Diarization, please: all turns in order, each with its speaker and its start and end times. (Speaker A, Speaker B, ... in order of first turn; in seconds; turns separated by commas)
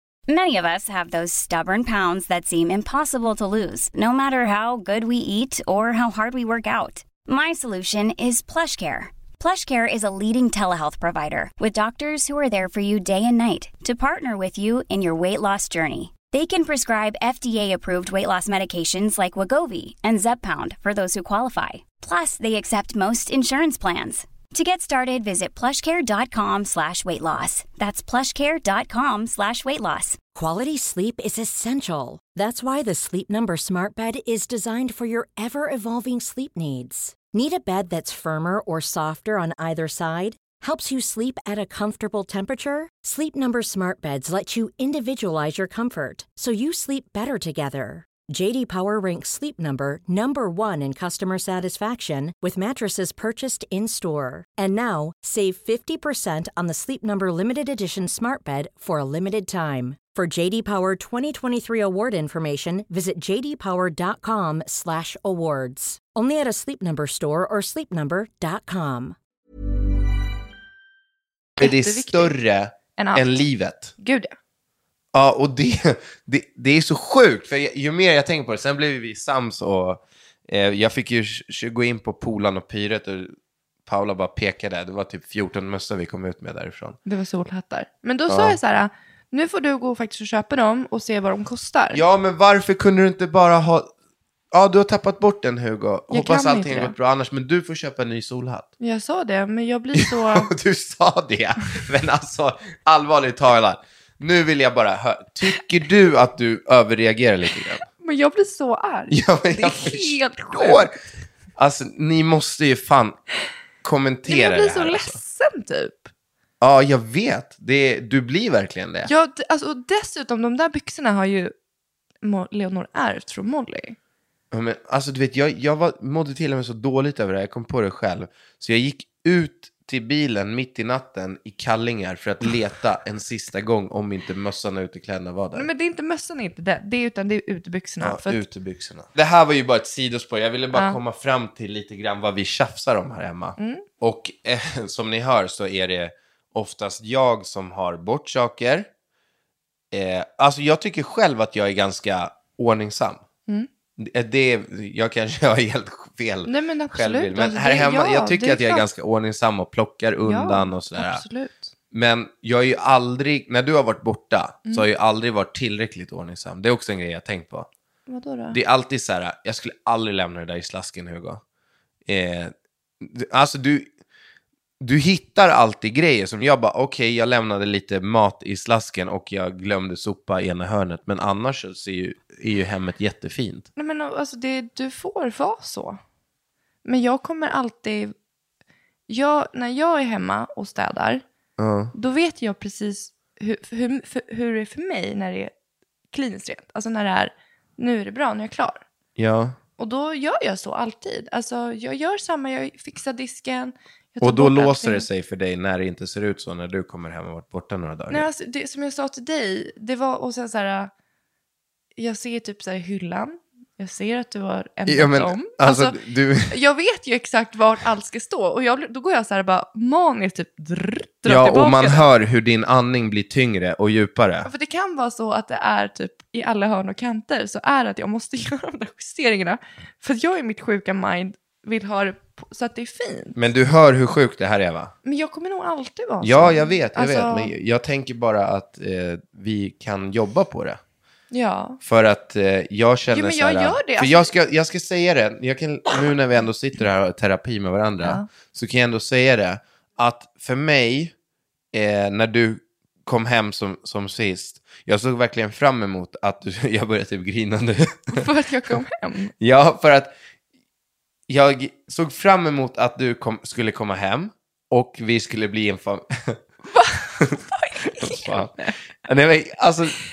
Speaker A: 0.3-30.2, Speaker B: 30.3-69.2, Speaker C: 71.6-72.3, Speaker D: 71.6-73.9, Speaker C: 73.0-73.4, Speaker C: 74.0-74.3, Speaker D: 75.1-83.3, Speaker D: 83.9-87.0, Speaker C: 87.1-92.0, Speaker D: 88.3-88.6, Speaker D: 91.9-93.9, Speaker D: 94.5-98.7, Speaker C: 96.1-96.9, Speaker C: 98.8-100.5, Speaker D: 100.0-107.8, Speaker C: 108.0-110.9, Speaker D: 109.1-110.9, Speaker D: 111.6-113.2, Speaker D: 113.8-115.2, Speaker C: 114.3-116.1, Speaker D: 116.6-119.1, Speaker C: 119.1-121.5, Speaker C: 122.2-124.0, Speaker D: 124.5-135.7, Speaker C: 135.5-138.4, Speaker D: 138.0-148.9, Speaker C: 140.7-141.0, Speaker C: 143.6-143.8, Speaker D: 149.9-153.2, Speaker D: 154.0-161.2, Speaker C: 156.5-158.9, Speaker C: 160.2-161.7, Speaker D: 161.9-167.7, Speaker C: 168.1-168.6, Speaker D: 168.5-171.4, Speaker D: 172.1-173.9, Speaker D: 174.8-183.7, Speaker C: 183.8-186.0, Speaker C: 186.8-188.1, Speaker C: 189.1-191.2, Speaker D: 191.6-191.9, Speaker C: 191.9-195.5, Speaker C: 196.1-198.8, Speaker D: 199.2-199.6, Speaker C: 199.8-205.1, Speaker D: 204.2-208.3, Speaker C: 208.1-210.9, Speaker C: 212.0-216.0, Speaker D: 214.9-216.6, Speaker C: 216.5-222.1, Speaker D: 221.3-224.5, Speaker C: 224.4-233.4, Speaker D: 233.4-234.9, Speaker C: 235.1-237.5, Speaker D: 236.2-240.8, Speaker C: 241.3-241.8, Speaker D: 241.8-251.1, Speaker C: 243.1-244.3, Speaker D: 251.7-258.2, Speaker C: 258.1-259.3, Speaker D: 259.4-260.1, Speaker D: 261.3-266.4, Speaker C: 266.7-268.8, Speaker D: 267.2-270.0